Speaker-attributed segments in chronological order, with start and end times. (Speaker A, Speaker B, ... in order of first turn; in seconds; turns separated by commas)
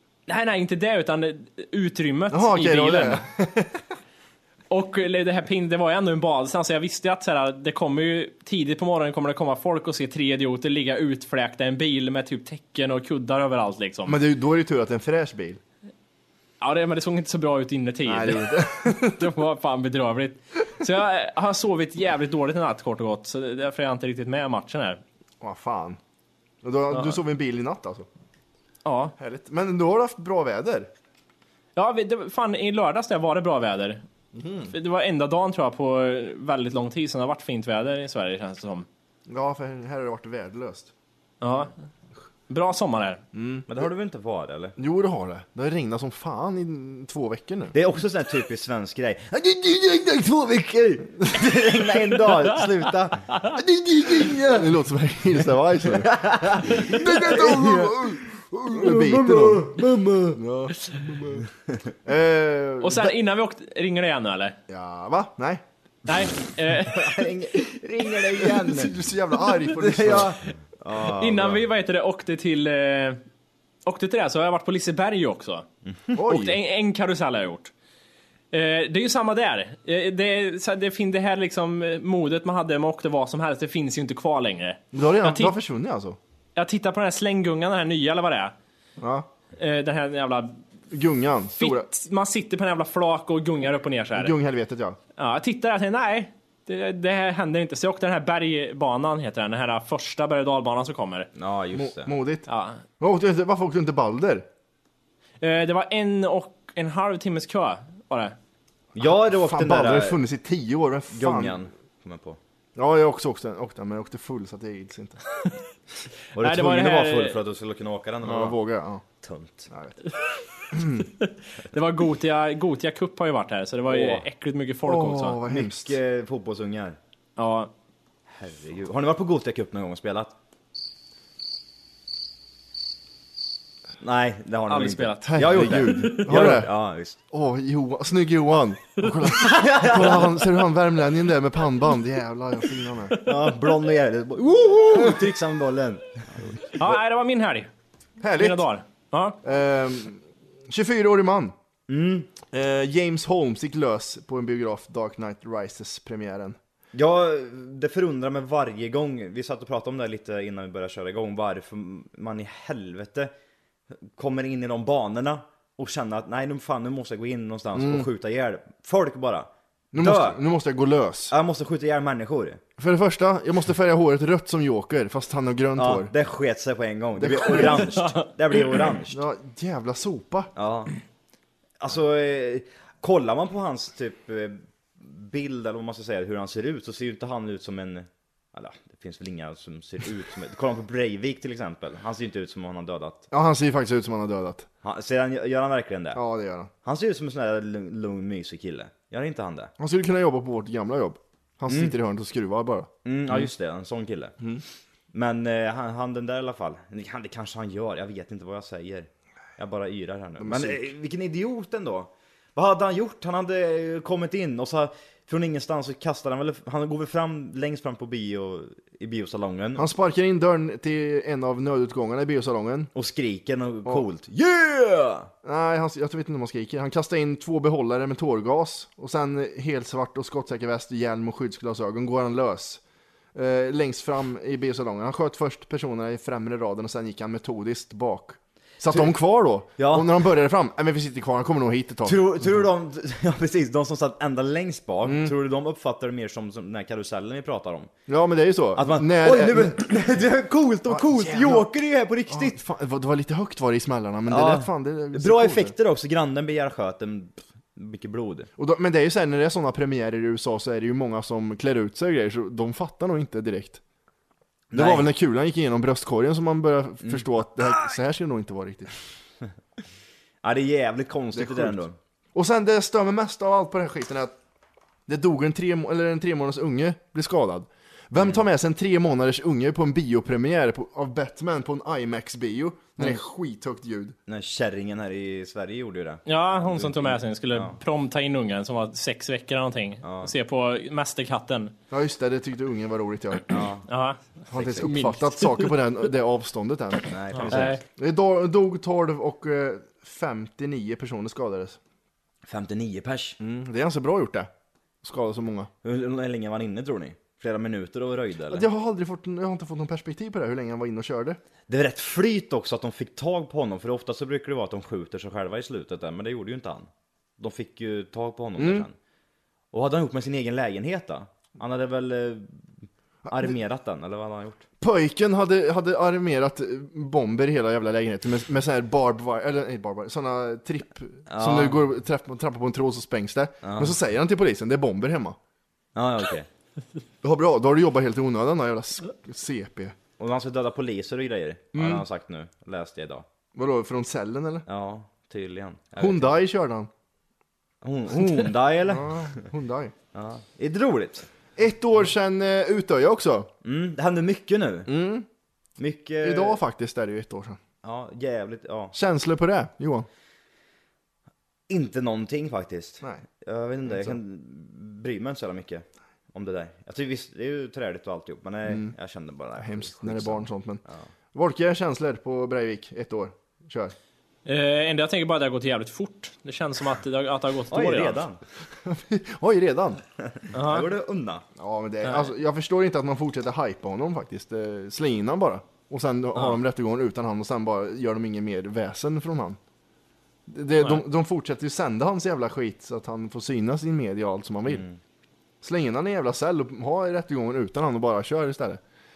Speaker A: 0.3-3.2, Speaker B: 2.3-3.8, Speaker A: 4.7-14.2, Speaker B: 14.1-15.6, Speaker A: 16.6-25.0, Speaker B: 18.1-19.2, Speaker B: 25.4-26.0, Speaker B: 26.6-28.1, Speaker A: 26.9-27.2, Speaker A: 28.8-29.1, Speaker B: 29.2-30.9, Speaker A: 31.8-34.0, Speaker B: 34.3-34.7, Speaker A: 34.7-38.9, Speaker B: 39.3-40.9, Speaker A: 41.4-41.7, Speaker A: 42.5-43.2, Speaker B: 43.3-43.6, Speaker C: 43.7-44.8, Speaker B: 44.8-47.7, Speaker C: 47.7-53.2, Speaker B: 53.6-59.7, Speaker C: 54.1-54.6, Speaker C: 56.0-58.0, Speaker C: 58.7-60.4, Speaker B: 60.3-61.5, Speaker B: 62.0-63.1, Speaker A: 62.8-64.6, Speaker B: 64.7-65.6, Speaker A: 66.0-67.2, Speaker C: 66.9-68.9, Speaker B: 68.4-70.3, Speaker C: 69.8-71.6, Speaker A: 71.1-73.2, Speaker A: 73.8-75.7, Speaker B: 76.1-76.6, Speaker A: 76.2-77.7, Speaker A: 78.5-85.5, Speaker B: 84.9-86.2, Speaker A: 86.5-88.5, Speaker B: 89.0-89.3, Speaker A: 89.5-90.6, Speaker B: 90.9-91.9, Speaker A: 91.6-94.3, Speaker B: 94.1-95.0, Speaker A: 95.2-101.3, Speaker C: 101.3-102.1, Speaker B: 101.7-102.5, Speaker A: 102.5-102.8, Speaker B: 103.0-104.4, Speaker A: 105.4-108.3, Speaker C: 109.0-110.2, Speaker B: 109.0-111.6, Speaker C: 111.1-112.4, Speaker B: 112.8-115.2, Speaker C: 116.3-118.6, Speaker A: 116.3-117.4, Speaker B: 118.2-119.0, Speaker C: 119.2-119.7, Speaker B: 119.7-120.0, Speaker B: 120.7-121.0, Speaker A: 120.9-125.4, Speaker C: 123.9-124.2, Speaker B: 124.8-126.0, Speaker C: 125.5-127.0, Speaker A: 127.4-127.7, Speaker C: 128.3-130.3, Speaker C: 134.0-137.2, Speaker A: 134.7-136.5, Speaker B: 135.3-136.7, Speaker B: 137.3-143.2, Speaker C: 139.3-140.4, Speaker C: 143.2-146.7, Speaker A: 146.7-147.7, Speaker B: 148.2-148.6, Speaker A: 148.4-149.4, Speaker B: 149.4-151.5, Speaker C: 151.9-152.3, Speaker B: 152.5-156.6, Speaker C: 156.9-163.3, Speaker C: 164.2-170.4, Speaker B: 167.7-168.1, Speaker B: 169.9-171.3, Speaker C: 171.3-172.6, Speaker B: 172.8-176.1, Speaker C: 175.8-179.2, Speaker B: 177.2-177.9, Speaker A: 177.9-178.3, Speaker B: 179.1-180.5, Speaker C: 180.6-180.9, Speaker C: 181.8-193.3, Speaker B: 193.3-194.7, Speaker C: 194.8-196.2, Speaker B: 196.1-196.7, Speaker C: 196.8-199.7, Speaker B: 199.8-203.5, Speaker C: 201.7-201.9, Speaker C: 203.0-204.3, Speaker C: 205.1-219.9, Speaker B: 210.4-210.8, Speaker B: 219.8-222.9, Speaker C: 222.9-225.3, Speaker B: 225.4-232.8, Speaker B: 233.3-242.2, Speaker C: 239.8-240.1, Speaker C: 242.0-247.9, Speaker B: 245.0-245.3, Speaker B: 248.1-249.9, Speaker C: 248.8-252.6, Speaker B: 250.9-251.7, Speaker B: 252.3-255.7, Speaker C: 254.3-258.5, Speaker B: 258.6-263.8, Speaker C: 264.7-265.1, Speaker B: 264.7-268.9, Speaker C: 270.4-271.9, Speaker B: 271.3-271.8, Speaker B: 272.3-274.4, Speaker B: 275.1-284.2, Speaker C: 278.2-278.4, Speaker C: 284.3-287.8, Speaker A: 286.2-291.7, Speaker C: 290.0-290.3, Speaker B: 291.9-293.5, Speaker C: 293.5-293.8, Speaker A: 293.9-294.2, Speaker B: 294.5-301.8, Speaker C: 294.5-294.8, Speaker A: 294.7-295.7, Speaker C: 297.1-297.8, Speaker A: 297.3-297.8, Speaker C: 302.4-303.4, Speaker B: 303.4-304.5, Speaker B: 305.0-305.7, Speaker C: 305.8-308.7, Speaker B: 308.5-311.4, Speaker C: 311.7-316.9, Speaker C: 317.4-318.9, Speaker B: 318.6-318.8, Speaker C: 319.7-322.6, Speaker B: 323.2-323.6, Speaker C: 323.3-324.6, Speaker B: 324.8-335.4, Speaker C: 331.3-331.8, Speaker C: 333.6-333.9, Speaker C: 335.9-336.5, Speaker B: 337.2-340.0, Speaker C: 340.2-343.2, Speaker B: 341.7-342.0, Speaker B: 343.6-344.6, Speaker C: 344.7-346.4, Speaker B: 346.0-346.9, Speaker C: 347.8-349.4, Speaker B: 348.9-349.9, Speaker C: 350.1-351.3, Speaker B: 351.6-353.5, Speaker C: 353.6-354.9, Speaker B: 354.9-355.2, Speaker C: 355.8-356.6, Speaker B: 356.2-357.6, Speaker C: 357.8-358.9, Speaker B: 358.9-360.1, Speaker C: 361.7-371.1, Speaker B: 363.9-364.2, Speaker B: 368.6-368.9, Speaker B: 369.6-370.8, Speaker B: 371.3-373.9, Speaker A: 374.4-378.2, Speaker C: 377.7-378.4, Speaker B: 378.8-380.0, Speaker C: 380.2-381.4, Speaker A: 380.5-380.9, Speaker B: 381.6-389.6, Speaker A: 382.0-382.3, Speaker B: 390.5-394.8, Speaker C: 394.7-395.0, Speaker B: 395.6-398.8